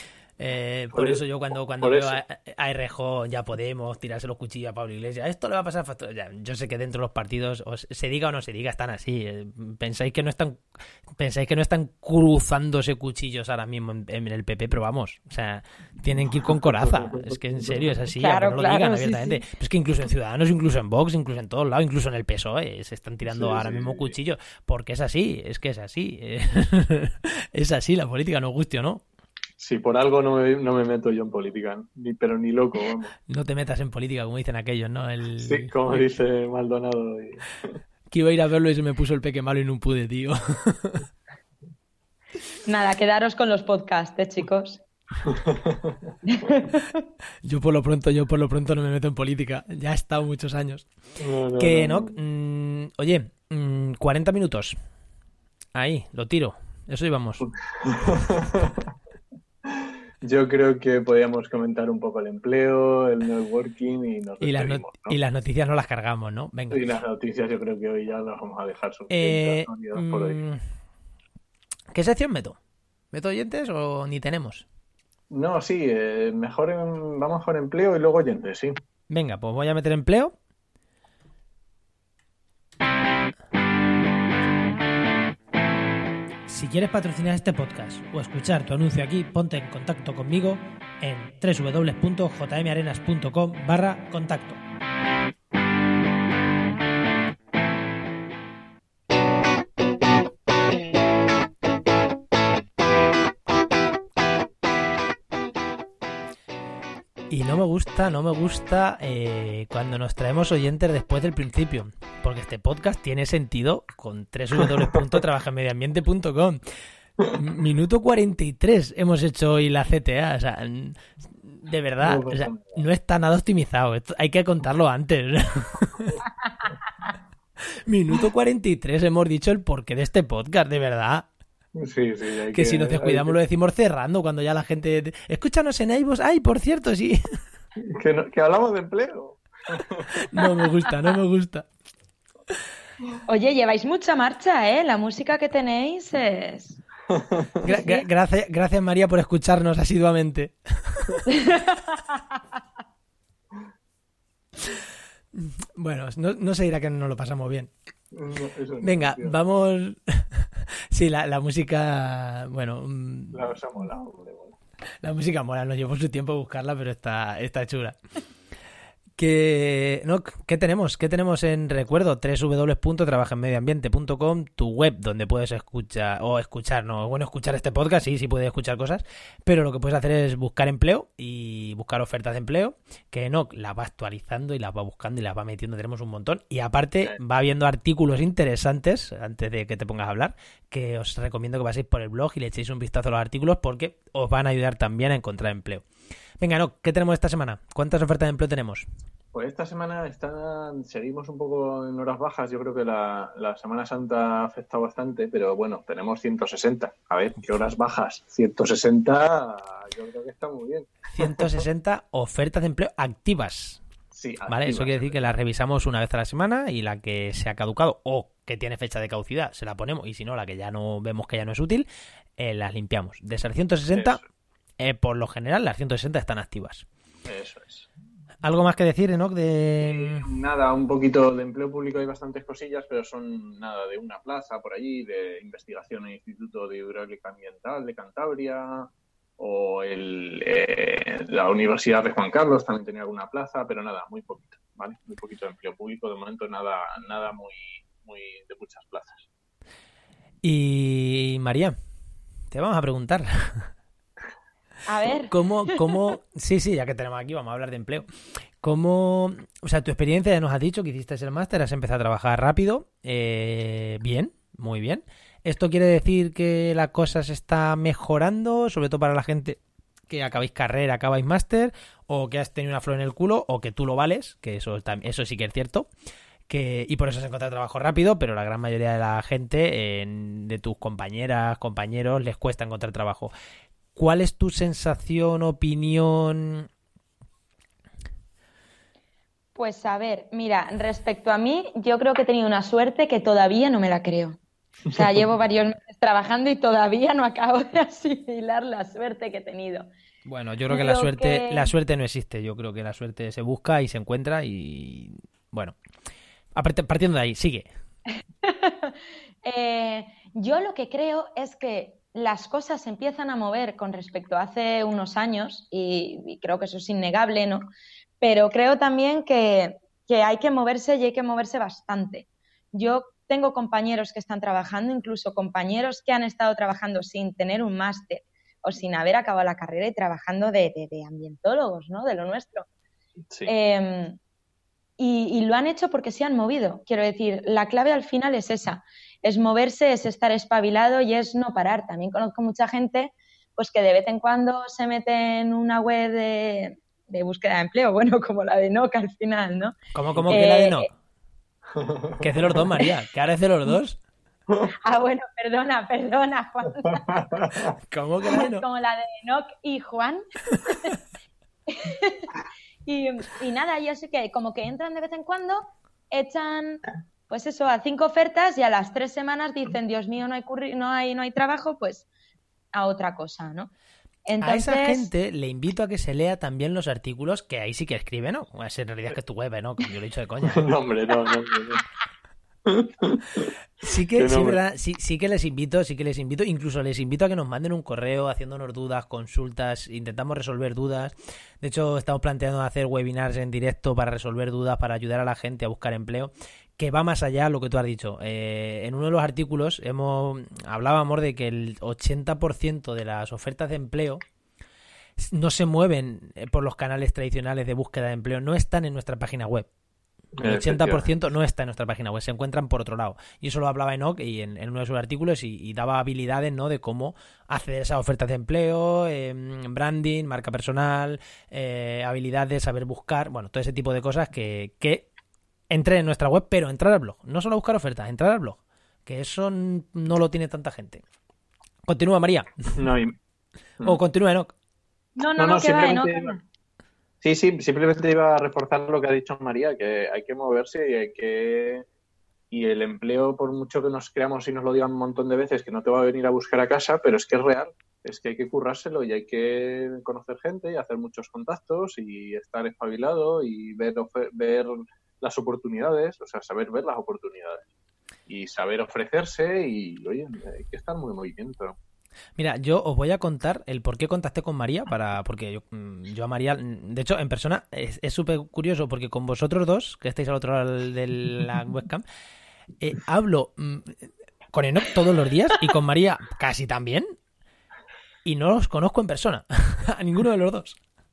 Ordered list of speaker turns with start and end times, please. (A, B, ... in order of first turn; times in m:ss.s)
0:00.4-0:10.6 A
0:00.9-0:01.2 B
0:01.8-0:02.2 B
0:11.2-0:29.0 A
0:18.2-0:19.4 C
0:23.2-0:24.1 B
0:29.6-0:33.1 B
0:33.3-0:36.0 A
0:35.4-0:37.8 B
0:38.1-0:41.0 A
0:42.6-0:44.8 C
0:45.2-0:46.1 B
0:46.3-0:47.0 C
0:47.4-0:50.8 A
0:51.2-0:52.2 B
0:51.6-0:54.8 A
0:55.7-0:57.5 A
0:57.4-0:58.9 B
0:59.7-1:05.2 B
1:04.4-1:06.9 A
1:06.7-1:10.4 B
1:09.1-1:10.6 A
1:11.9-1:12.6 A
1:13.1-1:14.6 A
1:15.3-1:18.8 B
1:19.1-1:20.3 A
1:26.5-1:34.6 A
1:47.3-1:56.6 A
1:57.2-1:57.5 B
1:57.3-2:06.2 A
2:02.0-2:02.8 B
2:07.8-2:11.3 A
2:11.8-2:13.4 B
2:12.5-2:17.2 A
2:17.8-2:20.2 B
2:20.1-2:21.7 A
2:23.3-2:26.8 C
2:27.1-2:27.5 B
2:27.6-2:28.1 C
2:27.6-2:31.3 A
2:31.4-2:31.7 C
2:35.3-2:37.7 A
2:38.1-2:39.4 B
2:38.8-2:43.4 A
2:43.3-2:44.5 B
2:45.0-2:48.0 A
2:49.2-3:15.8 A
3:16.4-3:18.8 A
3:19.3-3:31.5 B
3:31.1-3:33.8 A
3:34.1-3:35.1 B
3:34.4-3:41.9 A
3:42.4-3:44.2 A
3:43.9-3:44.2 B
3:44.8-3:46.8 A
3:47.2-3:47.9 B
3:48.4-3:50.3 A
3:49.8-4:09.3 B
4:10.4-4:11.7 A
4:12.5-4:13.7 A
4:14.8-4:15.9 C
4:15.3-4:18.1 A
4:18.6-4:29.6 A
4:30.1-4:35.9 A
4:36.5-4:43.3 A
4:43.9-4:46.7 A
4:49.5-4:54.4 C
4:54.9-4:59.9 C
5:00.2-5:05.8 A
5:00.7-5:01.7 C
5:06.5-5:07.7 A
5:08.4-5:17.7 C
5:18.2-5:32.7 C
5:33.4-5:34.2 C
5:35.0-5:49.7 C
5:49.9-5:50.9 A
5:50.3-5:50.9 C
5:51.8-5:52.3 B
5:52.2-5:54.0 A
5:54.8-5:57.2 C
5:57.1-5:57.7 B
5:57.9-5:58.6 A
5:58.3-6:00.9 C
6:01.7-6:02.3 C
6:02.8-6:12.0 C
6:12.7-6:13.7 C
6:14.2-6:15.1 C
6:14.4-6:20.7 A
6:20.4-6:21.8 B
6:22.6-6:23.5 B
6:23.8-6:44.2 A
6:24.1-6:24.6 B
6:45.2-6:49.7 A
6:50.4-6:51.1 B
6:50.4-7:05.1 A
7:05.7-7:11.0 A
7:11.8-7:12.7 A
7:12.8-7:13.2 B
7:13.8-7:14.5 A
7:15.2-7:16.4 C
7:15.4-7:16.4 B
7:17.2-7:21.8 B
7:22.5-7:37.6 B
7:38.3-7:41.8 B
7:42.4-7:52.0 A
7:52.8-7:57.0 A
7:58.2-8:00.8 A